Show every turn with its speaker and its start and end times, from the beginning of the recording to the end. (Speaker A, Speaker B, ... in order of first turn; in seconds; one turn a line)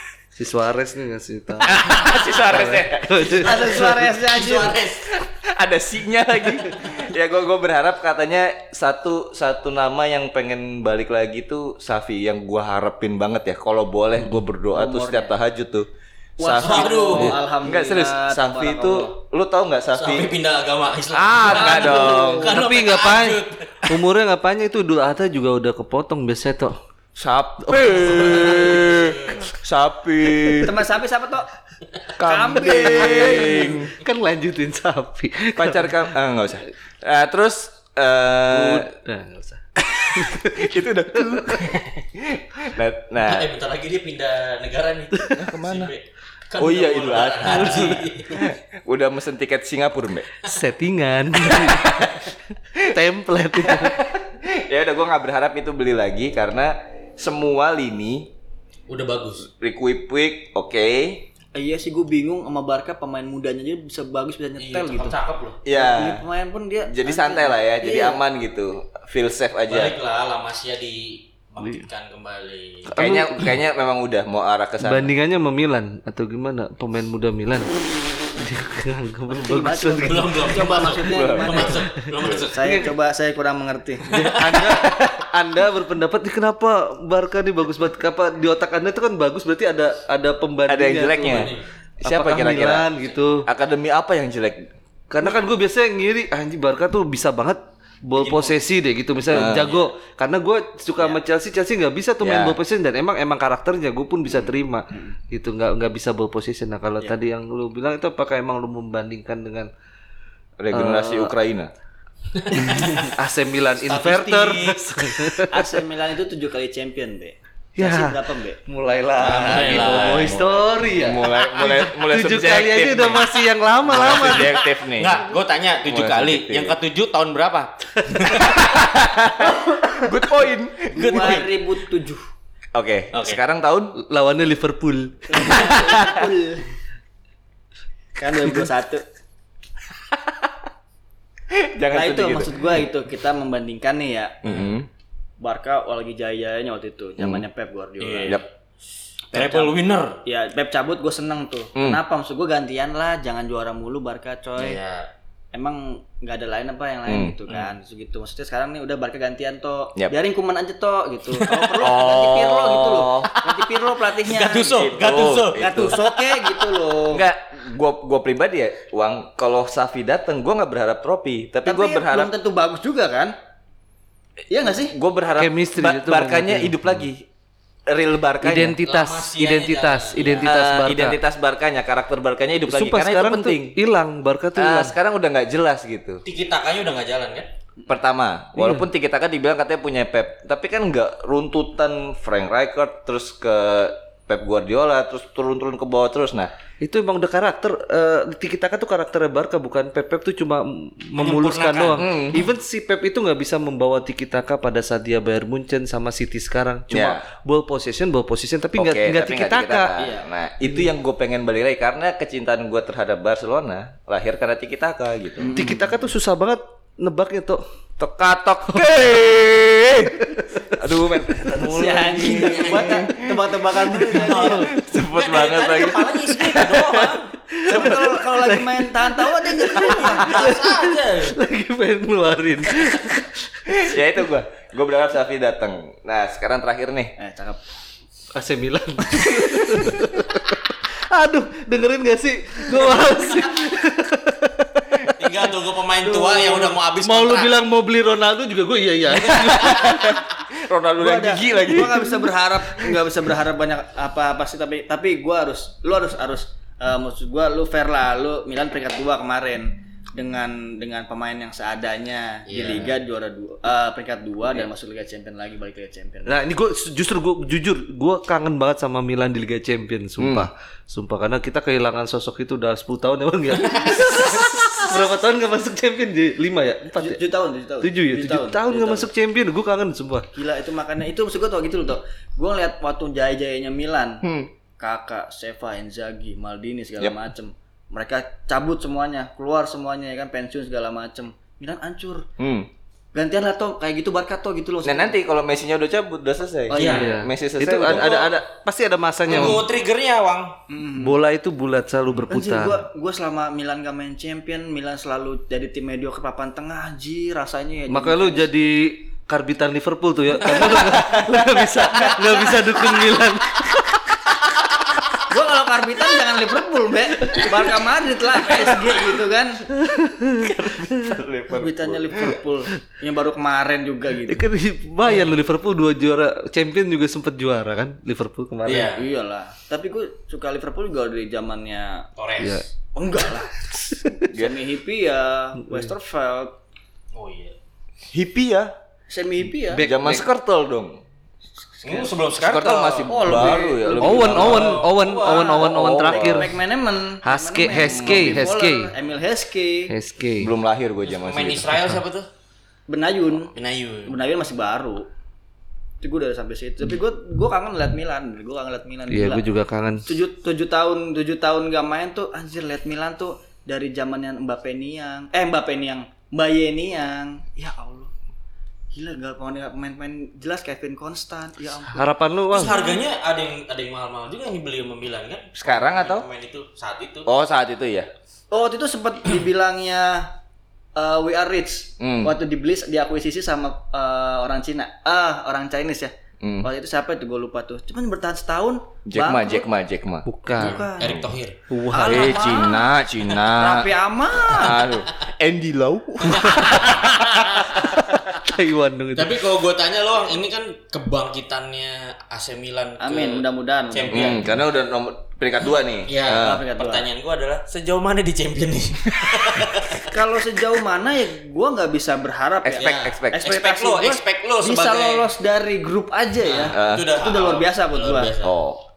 Speaker A: 0.3-4.1
Speaker B: 1.6-3.5
Speaker C: 3.3-4.8
Speaker D: 3.5-5.2
Speaker B: 5.1-20.3
Speaker C: 14.7-15.3
Speaker C: 16.4-19.1
Speaker D: 16.5-17.4
Speaker D: 19.9-24.0
Speaker B: 21.1-22.6
Speaker C: 21.4-22.6
Speaker A: 22.5-26.8
Speaker B: 27.1-30.9
Speaker A: 27.6-28.5
Speaker D: 28.0-29.4
Speaker C: 30.5-31.5
Speaker C: 32.1-33.8
Speaker B: 32.2-33.9
Speaker A: 33.0-36.1
Speaker B: 35.5-38.9
Speaker A: 38.5-41.6
Speaker B: 40.0-43.5
Speaker D: 43.2-48.4
Speaker B: 45.4-45.9
Speaker B: 46.6-50.3
Speaker A: 47.5-48.0
Speaker A: 50.4-54.0
Speaker D: 51.5-52.2
Speaker B: 53.6-58.3
Speaker D: 58.9-59.5
Speaker B: 59.5-61.2
Speaker C: 61.5-65.2
Speaker D: 64.6-65.6
Speaker B: 65.6-66.2
Speaker C: 65.7-68.2
Speaker B: 66.9-69.9
Speaker D: 69.7-72.9
Speaker A: 72.9-73.5
Speaker B: 72.9-75.1
Speaker A: 74.8-80.5
Speaker C: 79.3-84.3
Speaker D: 80.0-82.8
Speaker B: 81.0-82.5
Speaker A: 82.6-82.9
Speaker D: 84.1-84.7
Speaker A: 84.1-93.5
Speaker B: 90.7-92.9
Speaker D: 91.2-91.6
Speaker B: 93.4-94.7
Speaker A: 95.1-109.7
Speaker D: 98.2-98.6
Speaker B: 99.3-99.7
Speaker D: 99.3-99.8
Speaker B: 102.2-102.6
Speaker B: 110.6-111.7
Speaker A: 110.7-111.3
Speaker D: 112.3-113.1
Speaker A: 112.5-115.8
Speaker D: 113.8-115.3
Speaker C: 115.5-118.6
Speaker A: 117.8-124.6
Speaker D: 119.2-120.4
Speaker B: 119.6-125.2
Speaker D: 123.9-128.7
Speaker B: 125.8-126.8
Speaker B: 128.4-131.4
Speaker C: 129.4-130.1
Speaker C: 130.9-132.2
Speaker D: 130.9-131.5
Speaker B: 132.7-133.9
Speaker D: 133.1-133.4
Speaker A: 133.9-136.0
Speaker C: 135.3-136.6
Speaker B: 135.7-136.3
Speaker C: 138.2-139.0
Speaker B: 141.5-142.6
Speaker C: 141.9-144.7
Speaker B: 144.4-144.9
Speaker C: 145.4-148.4
Speaker B: 147.2-147.4
Speaker D: 148.0-148.4
Speaker C: 149.3-154.8
Speaker D: 149.3-150.2
Speaker B: 151.8-152.0
Speaker D: 154.6-155.1
Speaker C: 155.5-164.9
Speaker B: 157.1-157.4
Speaker D: 157.5-157.7
Speaker D: 161.4-161.9
Speaker B: 161.8-163.4
Speaker D: 163.4-166.6
Speaker B: 164.7-166.0
Speaker C: 165.5-167.3
Speaker B: 167.1-172.3
Speaker C: 171.6-173.3
Speaker C: 174.5-174.9
Speaker B: 174.6-177.2
Speaker A: 175.4-177.1
Speaker B: 177.9-178.8
Speaker A: 178.4-181.2
Speaker D: 178.8-180.5
Speaker B: 180.4-183.8
Speaker A: 182.7-184.9
Speaker B: 184.6-186.2
Speaker D: 186.2-187.5
Speaker B: 187.9-196.5
Speaker A: 188.6-188.8
Speaker A: 196.8-210.0
Speaker D: 201.2-202.1
Speaker B: 202.0-202.4
Speaker B: 206.9-207.2
Speaker B: 208.8-215.6
Speaker C: 210.0-210.3
Speaker C: 215.4-215.8
Speaker A: 215.5-217.6
Speaker B: 218.0-223.3
Speaker A: 220.2-220.8
Speaker A: 221.3-222.6
Speaker C: 221.6-224.7
Speaker D: 222.1-223.1
Speaker A: 223.8-224.6
Speaker D: 224.1-227.3
Speaker B: 224.7-227.1
Speaker A: 227.5-233.3
Speaker C: 227.7-230.6
Speaker D: 229.7-231.4
Speaker B: 233.7-237.1
Speaker C: 237.2-237.6
Speaker A: 238.3-245.3
Speaker B: 239.4-240.0
Speaker D: 245.2-247.5
Speaker C: 246.0-246.8
Speaker A: 247.0-250.2
Speaker D: 249.2-250.0
Speaker B: 249.5-253.0
Speaker C: 251.0-266.4
Speaker D: 262.4-262.9
Speaker A: 266.2-277.2
Speaker B: 270.2-270.5
Speaker D: 273.6-274.0
Speaker B: 274.4-274.8
Speaker C: 276.9-279.1
Speaker A: 277.8-280.3
Speaker C: 280.3-284.2
Speaker B: 284.2-284.5
Speaker C: 284.8-292.3
Speaker B: 292.4-292.7
Speaker C: 293.1-295.1
Speaker B: 294.8-298.3
Speaker C: 296.7-297.1
Speaker D: 296.7-297.1
Speaker A: 296.9-299.6
Speaker D: 297.8-298.3
Speaker D: 299.2-300.6
Speaker C: 300.7-301.2
Speaker A: 301.0-302.8
Speaker C: 302.3-308.5
Speaker A: 307.9-314.1
Speaker B: 310.9-311.6
Speaker C: 311.8-313.1
Speaker C: 315.3-319.6
Speaker A: 319.8-321.2
Speaker B: 320.4-322.4
Speaker C: 321.5-324.4
Speaker A: 324.3-328.9
Speaker D: 325.1-325.3
Speaker D: 328.6-329.1
Speaker C: 328.9-332.1
Speaker D: 332.2-332.6
Speaker A: 332.4-332.6
Speaker C: 332.9-333.6
Speaker C: 334.2-336.6
Speaker B: 334.3-334.6
Speaker A: 335.6-335.9
Speaker D: 337.1-337.6
Speaker B: 338.1-338.7
Speaker C: 339.1-339.9
Speaker A: 339.7-340.2
Speaker B: 339.8-341.0
Speaker C: 341.8-342.1
Speaker D: 341.8-343.5
Speaker B: 342.4-344.8
Speaker C: 343.0-349.9
Speaker A: 344.0-346.6
Speaker D: 344.2-345.6
Speaker B: 345.5-346.5
Speaker A: 347.2-348.9
Speaker B: 347.8-348.5
Speaker A: 349.9-350.5
Speaker B: 350.4-351.7
Speaker D: 351.0-352.3
Speaker C: 352.9-353.5
Speaker D: 353.5-354.2
Speaker C: 354.1-355.1
Speaker C: 356.0-359.5
Speaker A: 359.1-360.1
Speaker C: 360.1-368.1
Speaker C: 368.9-373.0
Speaker A: 371.9-372.9
Speaker D: 372.5-377.3
Speaker B: 375.6-376.2
Speaker B: 377.2-378.1
Speaker C: 378.5-380.3
Speaker C: 380.9-389.7
Speaker B: 382.0-382.3
Speaker B: 386.4-386.7
Speaker B: 389.1-390.2
Speaker A: 390.2-390.8
Speaker C: 390.6-391.2
Speaker D: 390.6-391.6
Speaker B: 391.0-391.3
Speaker A: 391.7-392.4
Speaker C: 391.9-392.9
Speaker B: 391.9-397.5
Speaker C: 393.5-394.9
Speaker D: 396.2-397.1
Speaker C: 397.1-397.7
Speaker A: 398.4-399.4
Speaker D: 399.1-404.5
Speaker C: 403.0-404.4
Speaker B: 404.1-406.6
Speaker D: 406.1-410.1
Speaker C: 406.3-407.0
Speaker C: 410.0-418.3
Speaker B: 412.6-413.6
Speaker D: 412.8-415.3
Speaker D: 416.4-418.6
Speaker B: 416.7-417.1
Speaker B: 418.4-418.8